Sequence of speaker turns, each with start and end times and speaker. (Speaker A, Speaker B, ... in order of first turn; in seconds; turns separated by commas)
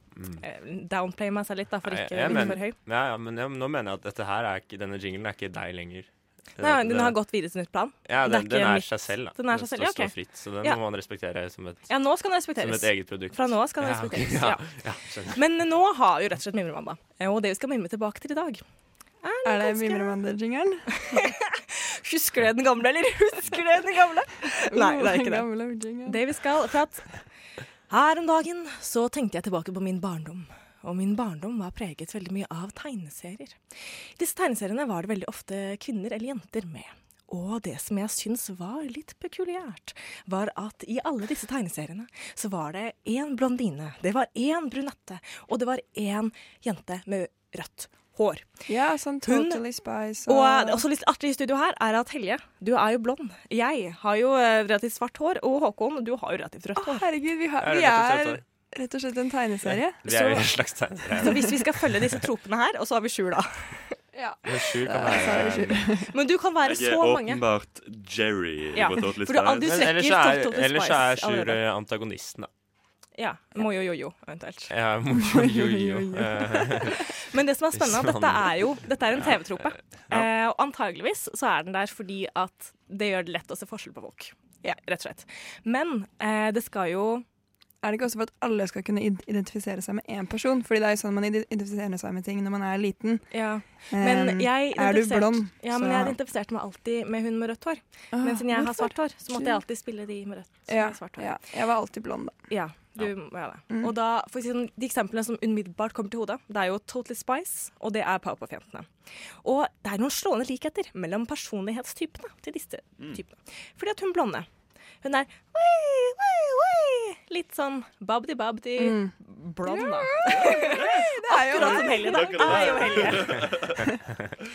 Speaker A: 0.1-0.4, Speaker B: 0.4-2.8, Speaker A: 1.8-7.2, Speaker C: 2.3-2.6, Speaker B: 6.6-10.8, Speaker A: 8.1-15.4, Speaker B: 11.9-18.6, Speaker B: 19.2-20.2, Speaker C: 19.4-21.2, Speaker B: 21.1-27.3, Speaker C: 24.7-26.3, Speaker B: 27.9-48.7, Speaker C: 48.7-50.9, Speaker B: 49.2-49.6, Speaker B: 50.3-57.1, Speaker C: 56.8-61.5, Speaker A: 57.6-58.4, Speaker A: 59.7-61.9, Speaker B: 61.2-64.0, Speaker C: 64.1-66.1, Speaker A: 64.5-66.0, Speaker B: 66.1-67.4, Speaker D: 66.6-69.8, Speaker B: 68.8-71.6, Speaker A: 69.7-72.5, Speaker B: 73.2-74.7, Speaker A: 74.7-77.1, Speaker C: 75.5-76.9, Speaker B: 77.2-87.2, Speaker A: 77.7-79.9, Speaker C: 87.8-96.2, Speaker B: 93.3-101.3, Speaker C: 98.1-99.6, Speaker C: 100.7-102.5, Speaker B: 102.5-114.5, Speaker C: 103.7-103.9, Speaker B: 115.0-123.7, Speaker C: 118.8-123.1, Speaker D: 121.5-123.9